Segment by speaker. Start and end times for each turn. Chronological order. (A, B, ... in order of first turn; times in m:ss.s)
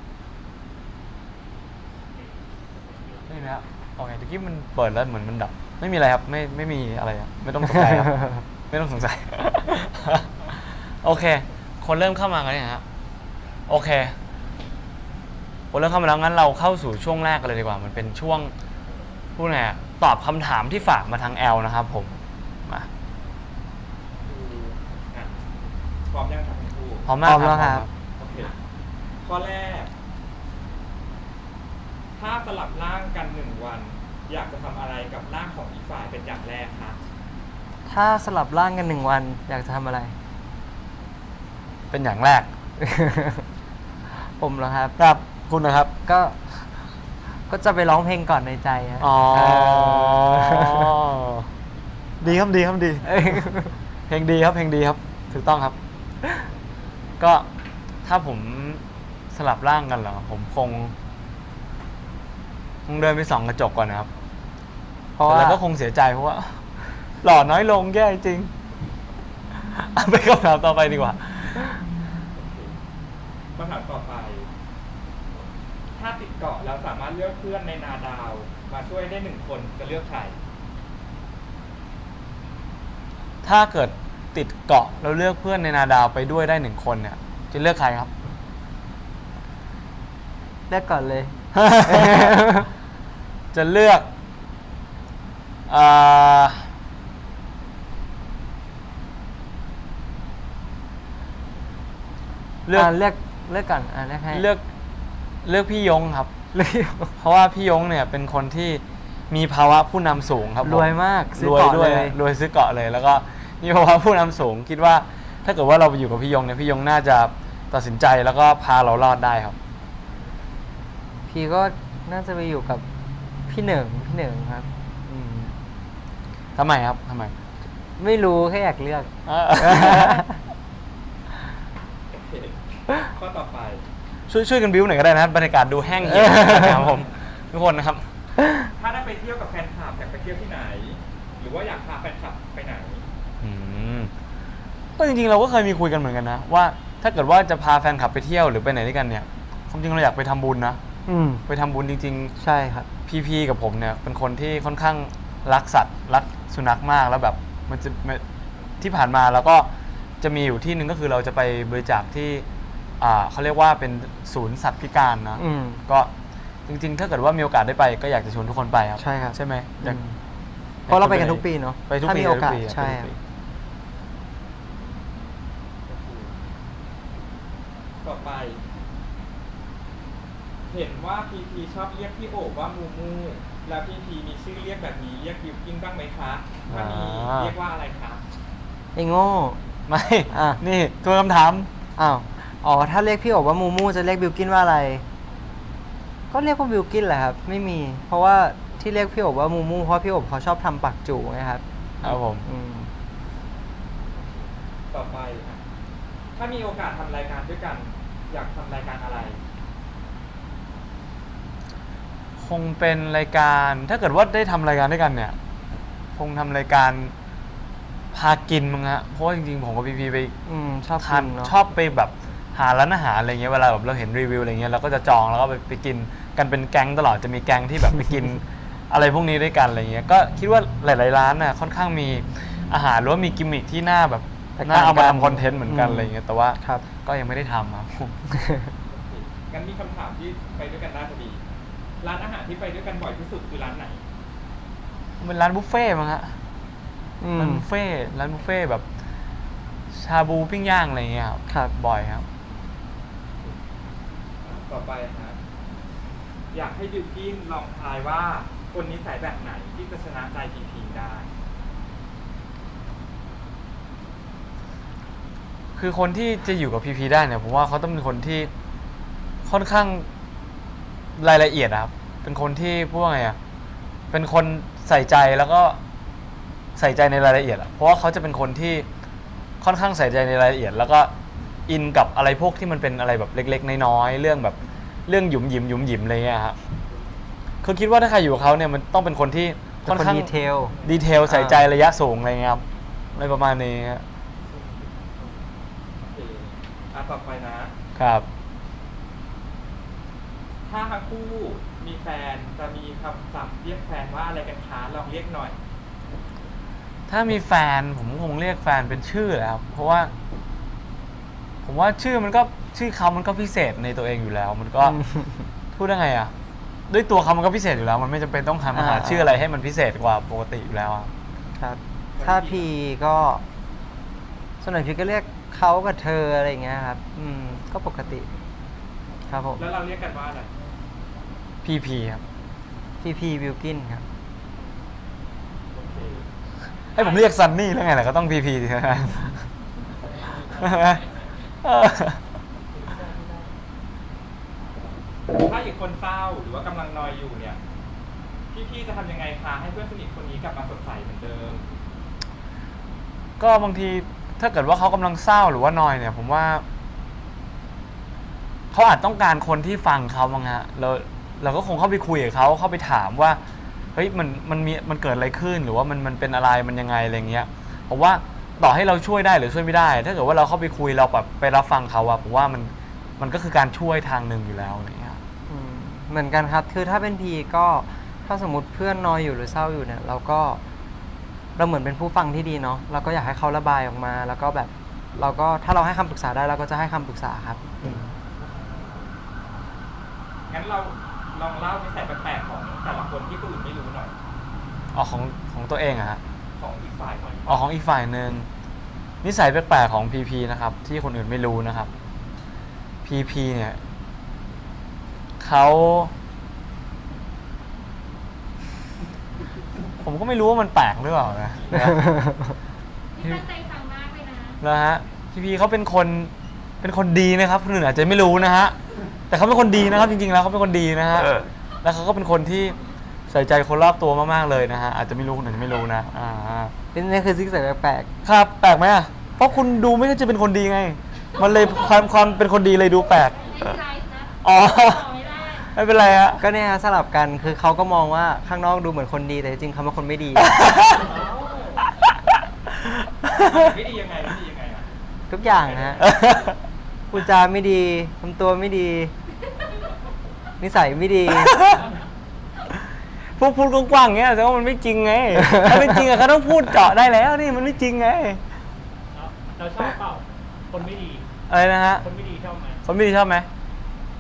0:02.2-0:03.3 A
0:03.3-0:12.8 B
0:13.7-0:14.2 B
0:15.7-0:18.5 B
0:19.4-0:22.9 B
0:24.2-0:25.5 C
0:26.1-0:27.1 C
0:27.1-0:27.9 B
0:27.2-0:27.9 D
0:28.2-0:28.5 C
0:29.2-0:29.9 C
0:32.2-0:37.0 C
0:37.9-0:40.2 D
0:41.9-0:42.5 B
0:42.8-0:43.4 D
0:44.2-0:45.0 D
0:45.0-0:45.9 B
0:46.1-0:46.4 D
0:47.5-0:50.9 D
0:49.0-0:51.5 B
0:52.2-0:53.5 B
0:53.0-0:53.7 D
0:54.1-0:55.8 B
0:57.2-0:57.5 B
0:58.0-1:00.9 B
1:02.9-1:04.1 B
1:05.2-1:05.6 D
1:05.3-1:06.6 B
1:07.2-1:08.5 B
1:09.6-1:11.8 B
1:12.4-1:12.8 C
1:13.6-1:14.5 C
1:16.0-1:20.4 C
1:23.4-1:28.1 B
1:30.7-1:32.7 D
1:31.5-1:32.6 B
1:33.5-1:34.1 B
1:35.7-1:36.7 B
1:42.6-1:42.9 B
1:42.7-1:44.5 D
1:44.3-1:44.6 B
1:45.4-1:46.3 B
1:46.5-1:47.1 D
1:47.2-1:59.6 B
1:50.6-1:52.2 D
2:01.3-2:02.8 D
2:03.5-2:05.6 D
2:06.6-2:07.3 B
2:08.0-2:10.4 D
2:09.3-2:10.2 B
2:12.1-2:13.8 C
2:14.3-2:18.1 B
2:16.0-2:16.8 D
2:18.8-2:23.1 C
2:23.4-2:24.1 B
2:25.0-2:30.8 B
2:31.1-2:31.4 D
2:31.5-2:32.3 B
2:32.4-2:32.9 D
2:33.1-2:38.2 B
2:38.8-2:39.7 B
2:40.2-2:42.5 B
2:43.0-2:46.1 B
2:45.4-2:45.8 D
2:46.7-2:50.0 B
2:49.0-2:50.2 D
2:50.9-2:53.2 B
2:50.9-2:53.1 D
2:55.9-2:56.4 C
2:58.0-2:58.6 C
3:00.7-3:08.2 C
3:06.7-3:07.5 B
3:09.0-3:09.6 D
3:09.9-3:11.7 B
3:10.3-3:10.6 D
3:12.0-3:15.0 D
3:16.3-3:22.9 D
3:22.0-3:22.5 B
3:24.9-3:25.6 C
3:26.4-3:29.4 C
3:32.4-3:35.4 B
3:36.2-3:37.1 B
3:38.1-3:40.3 B
3:40.5-3:41.5 D
3:41.0-3:58.2 B
3:54.6-3:56.8 D
3:58.3-3:58.7 D
3:58.9-4:01.4 C
4:02.0-4:04.0 C
4:05.2-4:06.4 B
4:07.2-4:07.6 D
4:07.4-4:08.9 B
4:09.9-4:12.3 B
4:14.4-4:15.4 C
4:16.5-4:21.3 C
4:25.8-4:28.5 B
4:29.4-4:30.1 B
4:31.2-4:33.4 B
4:34.1-4:35.8 B
4:36.8-4:38.9 B
4:39.6-4:41.1 B
4:41.7-4:46.6 B
4:47.6-4:50.3 B
4:49.8-4:50.8 D
4:50.8-4:52.6 B
4:51.3-4:51.6 D
4:53.2-4:54.0 B
4:56.0-4:57.7 C
4:58.0-4:58.3 B
5:00.7-5:05.6 C
5:07.1-5:10.1 B
5:11.6-5:15.0 B
5:14.8-5:15.5 D
5:15.7-5:16.3 B
5:16.9-5:21.1 B
5:18.7-5:19.4 D
5:21.6-5:23.4 D
5:22.2-5:22.7 C
5:24.6-5:28.3 D
5:29.3-5:29.6 D
5:29.6-5:30.5 C
5:31.6-5:32.2 B
5:33.0-5:34.0 D
5:35.7-5:36.2 C
5:36.9-5:39.5 B
5:40.4-5:41.0 B
5:41.6-5:42.2 B
5:42.9-5:43.5 A
5:45.3-5:47.6 C
5:48.5-5:51.6 C
5:53.4-5:56.6 B
5:58.7-6:03.4 B
6:04.0-6:15.2 B
6:15.5-6:20.6 D
6:21.6-6:27.6 D
6:30.5-6:34.1 C
6:34.9-6:36.2 B
6:36.6-6:37.6 C
6:37.5-6:38.5 B
6:39.2-6:41.9 B
6:43.0-6:43.8 B
6:45.4-6:46.1 B
6:50.0-6:52.0 B
6:52.0-6:52.5 D
6:53.1-6:54.6 E
6:54.6-6:58.8 B
6:59.3-7:02.8 B
7:03.3-7:06.7 B
7:06.9-7:08.1 D
7:08.2-7:13.8 B
7:11.4-7:12.0 E
7:13.1-7:15.7 E
7:14.4-7:15.0 B
7:15.7-7:16.4 B
7:16.4-7:20.7 D
7:20.4-7:21.1 B
7:20.9-7:21.9 A
7:22.9-7:23.5 B
7:23.3-7:24.9 C
7:25.3-7:26.1 D
7:25.5-7:26.0 C
7:26.0-7:26.6 B
7:27.1-7:29.1 D
7:30.6-7:31.6 D
7:31.3-7:31.9 B
7:33.4-7:38.4 B
7:35.5-7:35.7 D
7:39.1-7:41.3 A
7:41.5-7:42.1 B
7:42.0-7:42.8 A
7:42.8-7:43.5 B